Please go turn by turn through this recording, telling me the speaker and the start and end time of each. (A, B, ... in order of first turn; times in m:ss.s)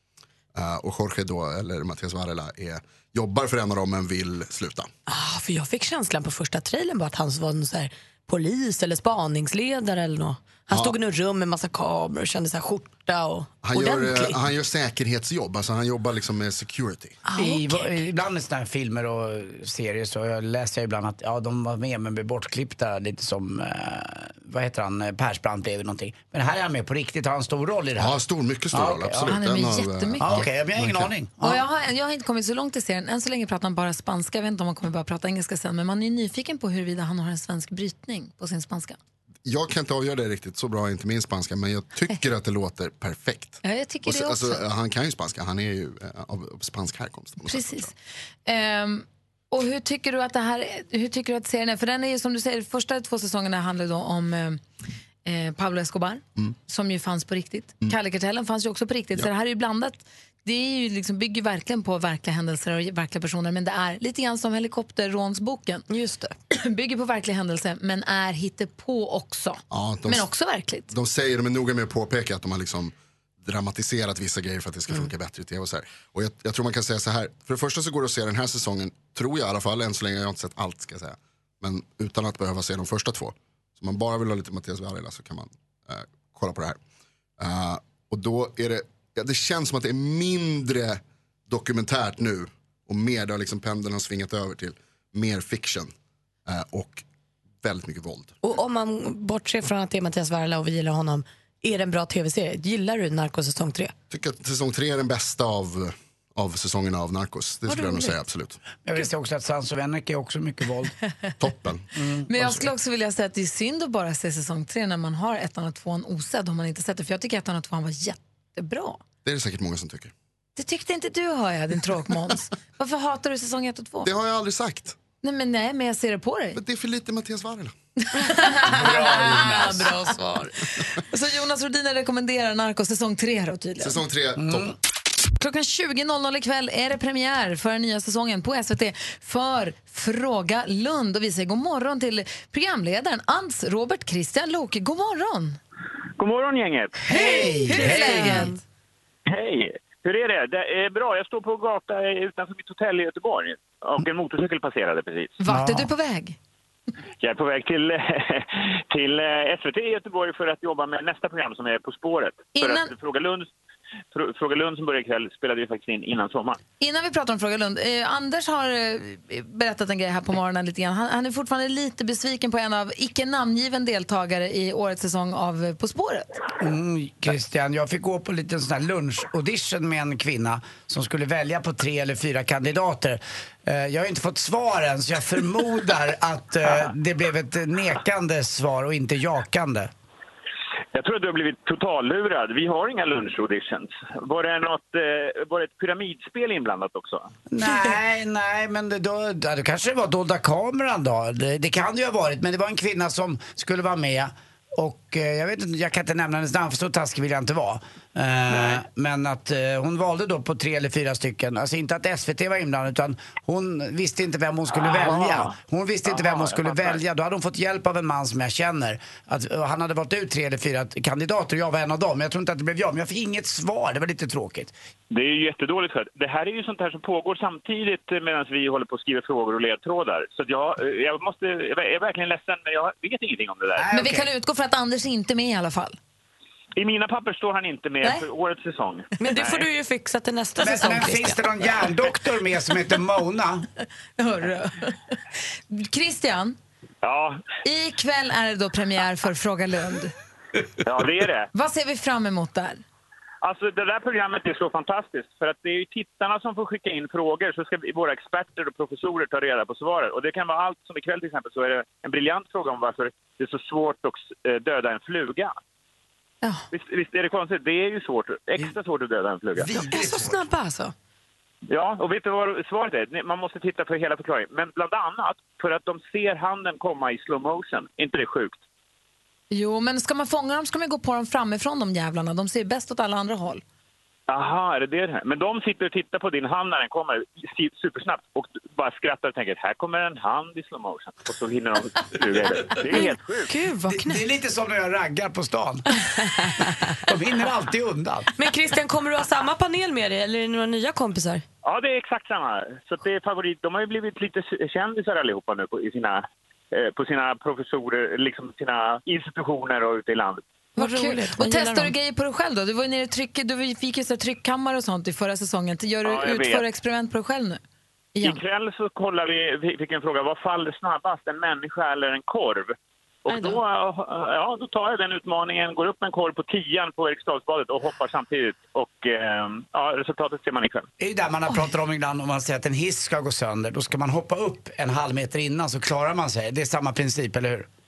0:00.5-0:04.9 A
0:05.1-0:14.4 B
0:13.6-0:17.2 A
0:17.3-0:17.9 B
0:17.4-0:28.2 C
0:28.0-0:31.1 A
0:28.7-0:29.4 C
0:29.3-0:30.5 D
0:30.2-0:31.6 C
0:31.4-0:39.0 D
0:39.4-0:47.9 A
0:43.6-0:44.6 D
0:47.4-0:47.9 D
0:48.4-0:54.6 D
0:55.2-1:05.8 D
1:05.9-1:06.3 B
1:06.5-1:10.9 D
1:09.7-1:10.3 A
1:10.9-1:26.8 A
1:27.4-1:35.9 A
1:36.4-1:37.0 A
1:37.6-1:38.3 A
1:38.4-1:43.9 B
1:44.1-1:48.6 A
1:48.8-1:50.9 C
1:51.4-1:51.8 A
1:52.0-1:52.3 C
1:52.3-1:59.0 D
1:59.2-2:00.1 A
2:00.6-2:04.1 D
2:04.0-2:05.0 A
2:05.2-2:06.6 D
2:06.5-2:07.7 A
2:08.0-2:09.9 D
2:08.7-2:09.8 C
2:08.8-2:10.5 B
2:10.9-2:14.0 D
2:13.8-2:14.7 A
2:14.4-2:14.7 C
2:15.4-2:25.6 D
2:26.2-2:27.0 E
2:27.1-2:28.5 C
2:27.1-2:28.6 D
2:27.2-2:28.5 B
2:29.3-2:35.4 E
2:35.4-2:36.4 D
2:35.4-2:35.9 C
2:37.2-2:43.5 E
2:42.5-2:42.9 D
2:44.1-2:46.6 E
2:46.8-2:56.4 D
2:56.6-3:09.9 C
3:10.9-3:17.3 E
3:17.5-3:44.7 C
3:28.5-3:28.8 E
3:34.7-3:37.0 E
3:45.1-3:53.9 E
3:53.8-3:54.3 C
3:53.9-3:56.0 D
3:56.8-3:59.6 E
3:59.2-4:01.4 B
4:00.6-4:03.6 C
4:04.2-4:05.0 D
4:05.7-4:06.6 D
4:07.0-4:07.4 E
4:07.6-4:10.1 D
4:10.8-4:11.5 E
4:11.5-4:12.8 D
4:13.4-4:25.6 E
4:26.7-4:29.7 E
4:29.6-4:30.4 C
4:29.7-4:30.9 B
4:31.7-4:38.6 E
4:39.5-4:43.6 D
4:44.3-4:53.5 E
4:52.9-4:54.2 B
4:53.9-4:55.9 C
4:56.1-4:57.0 B
4:57.0-4:58.3 C
4:58.4-5:01.4 B
5:01.6-5:10.4 E
5:10.8-5:11.9 B
5:10.8-5:17.6 D
5:16.0-5:16.6 E
5:18.1-5:18.4 D
5:18.2-5:22.7 E
5:23.3-5:30.9 E
5:31.0-5:37.7 C